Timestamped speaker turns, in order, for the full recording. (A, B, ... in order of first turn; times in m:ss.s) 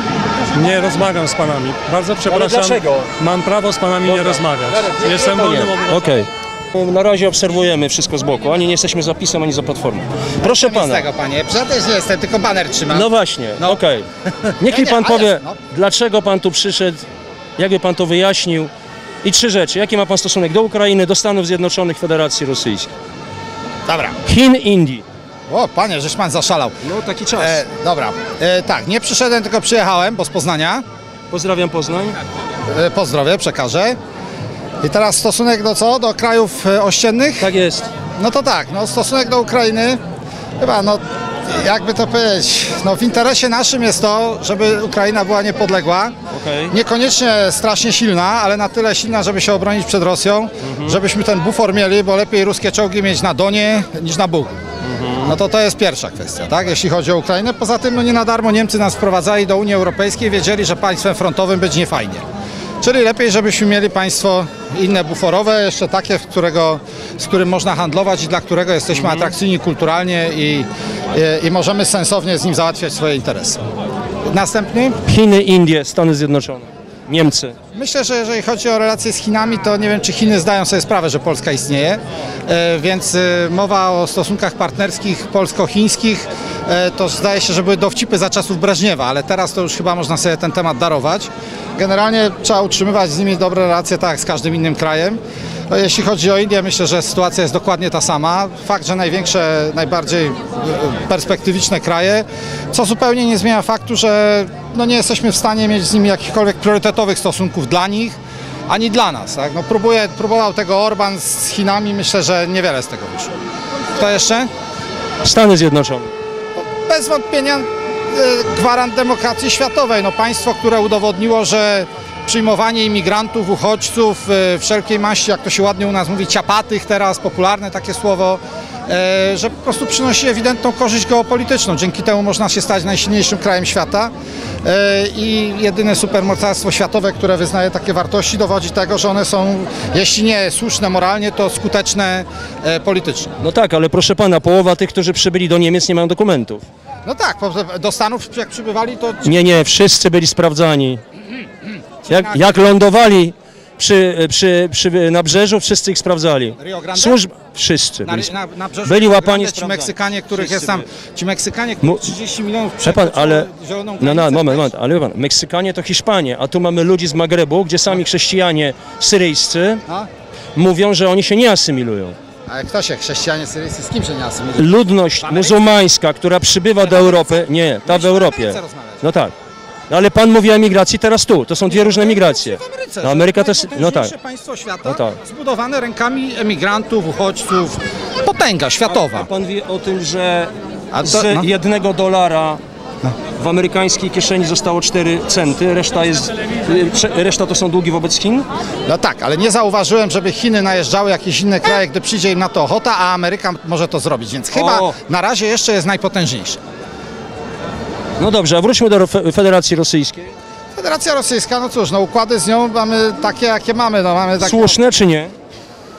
0:00.5-0:06.1 A
0:02.2-0:03.1 B
0:04.0-0:11.0 B
0:10.4-0:13.1 C
0:12.9-0:14.1 B
0:14.4-0:15.6 C
0:14.6-0:17.0 B
0:17.6-0:18.7 B
0:19.2-0:22.9 B
0:23.9-0:24.2 C
0:24.3-0:25.0 B
0:25.5-0:26.8 C
0:26.8-0:27.6 B
0:27.4-0:30.8 C
0:31.3-0:32.2 B
0:32.7-0:34.0 C
0:34.8-0:37.5 C
0:37.4-0:37.9 B
0:38.2-0:40.0 C
0:40.6-0:46.2 C
0:46.3-0:46.7 B
0:46.7-0:54.6 C
0:50.6-0:51.0 B
0:54.9-0:55.3 B
0:55.2-1:02.2 C
1:02.8-1:13.6 C
1:08.9-1:09.3 B
1:14.3-1:15.0 C
1:15.0-1:17.6 B
1:17.7-1:48.2 C
1:48.7-1:53.3 C
1:53.9-1:54.5 C
1:55.2-1:56.1 B
1:56.6-2:14.1 C
2:14.6-2:23.4 C
2:23.4-2:26.6 B
2:27.0-2:29.4 C
2:29.2-2:31.0 B
2:32.0-2:32.5 C
2:32.1-2:38.3 B
2:36.6-2:37.2 C
2:38.0-2:44.7 C
2:38.8-2:40.8 B
2:41.8-2:42.1 B
2:42.8-2:43.5 B
2:44.0-2:49.8 B
2:50.6-2:52.2 B
2:52.5-2:54.7 C
2:54.6-2:59.3 B
2:55.2-2:55.6 C
2:56.8-2:59.1 C
2:59.9-3:04.1 B
3:01.7-3:09.3 C
3:04.9-3:05.2 B
3:08.9-3:10.5 B
3:10.9-3:11.5 C
3:11.0-3:12.6 B
3:13.4-3:18.5 B
3:18.9-3:26.6 C
3:24.5-3:25.0 B
3:28.2-3:30.3 B
3:30.8-3:34.8 C
3:34.4-3:35.3 B